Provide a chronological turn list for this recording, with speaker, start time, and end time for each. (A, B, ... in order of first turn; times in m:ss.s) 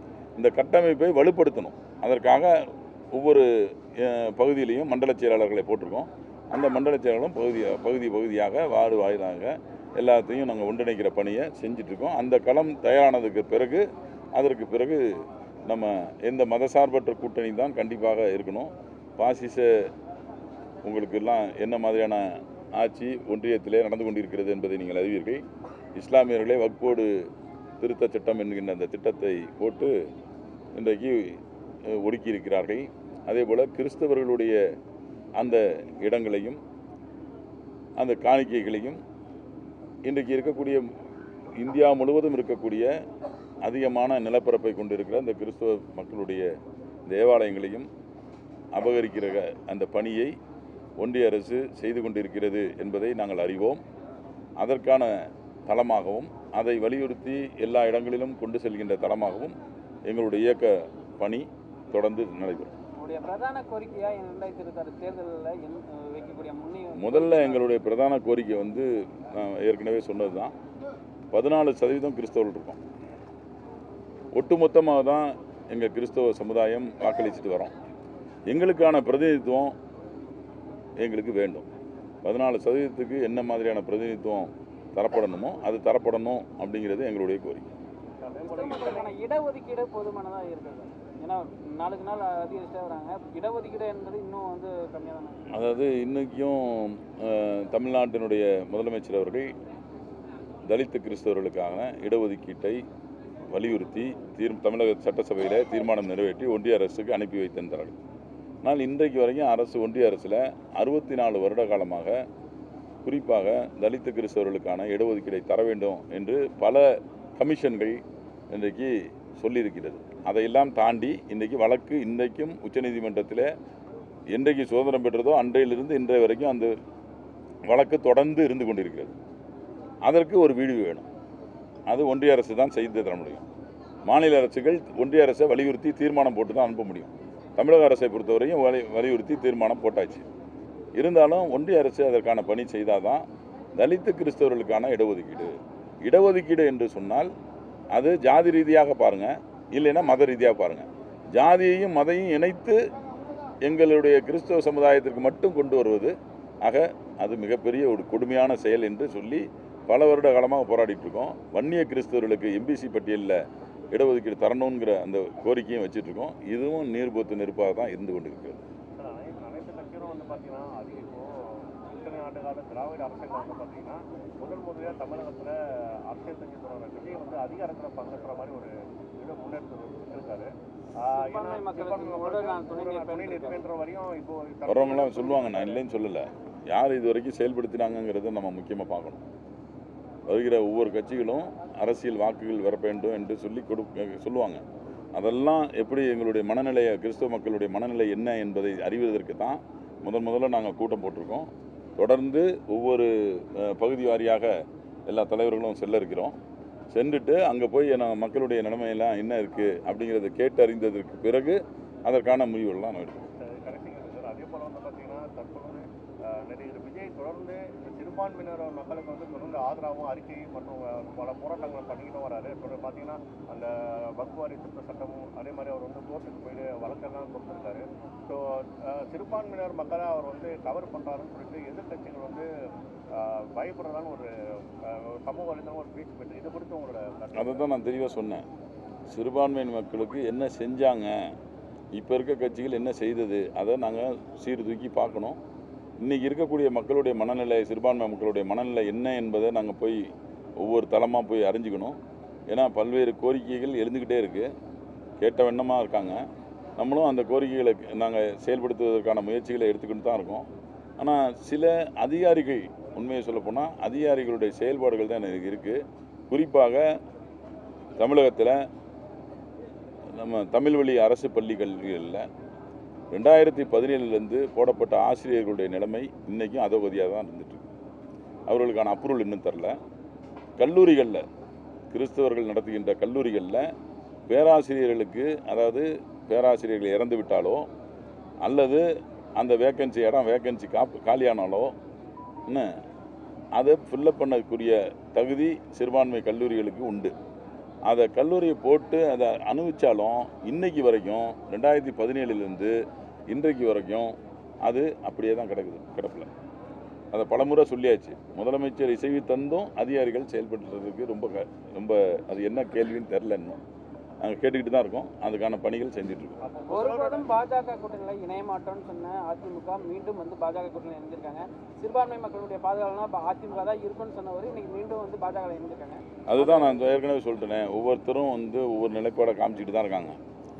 0:00.4-0:19.7 A
0:20.8-0:25.4 A
0:26.0-0:27.2 A
0:27.8-0:29.9 A
0:30.7-0:34.6 A
0:35.4-0:36.6 A
0:38.0-0:39.0 A
0:40.0-0:40.8 A
0:41.6-0:42.9 A
0:43.6-0:46.5 A
0:47.1-0:47.9 A
0:48.7-0:50.4 A
0:51.0-0:53.8 A
0:54.6-0:55.1 A
0:55.7-1:02.7 A
1:03.0-1:07.7 B
1:07.0-1:10.5 A
1:11.3-1:12.8 A
1:14.3-1:17.7 A
1:18.5-1:19.7 A
1:21.0-1:21.7 A
1:22.2-1:27.7 A
1:28.2-1:29.1 C
1:28.4-1:35.5 B
1:35.5-1:39.5 A
1:40.6-1:42.8 A
1:43.5-1:48.0 A
1:48.6-1:52.2 A
1:53.0-2:03.5 A
2:04.3-2:06.7 A
2:07.7-2:09.1 A
2:10.0-2:11.0 A
2:11.9-2:13.4 A
2:14.0-2:20.2 A
2:21.0-2:23.2 A
2:23.8-2:27.3 A
2:27.9-2:32.8 A
2:33.6-2:43.4 A
2:43.9-2:48.6 A
2:49.0-2:55.6 C
2:56.1-3:05.8 C
3:01.1-3:03.6 B
3:04.6-3:09.2 A
3:10.3-3:14.6 A
3:15.2-3:24.5 A
3:25.1-3:26.4 A
3:26.9-3:33.3 A
3:33.4-3:52.5 C
3:53.1-3:57.6 C
3:57.4-3:58.4 A
3:59.1-4:01.3 A
4:01.9-4:05.4 A
4:06.0-4:12.0 A
4:12.5-4:14.5 A
4:15.2-4:16.2 A
4:16.8-4:20.5 A
4:21.0-4:26.8 A
4:28.0-4:28.6 A
4:30.1-4:32.2 A
4:33.1-4:37.7 A
4:38.5-4:39.8 A
4:40.6-4:41.2 A
4:41.9-4:43.7 A
4:44.3-4:47.6 A
4:48.4-4:51.7 A
4:52.5-4:52.8 A
4:53.5-4:57.1 A
4:57.9-5:02.8 A
5:03.3-5:06.3 A
5:07.1-5:13.6 A
5:14.2-5:16.4 A
5:16.4-5:17.4 C
5:16.7-5:26.9 B
5:26.3-5:30.2 A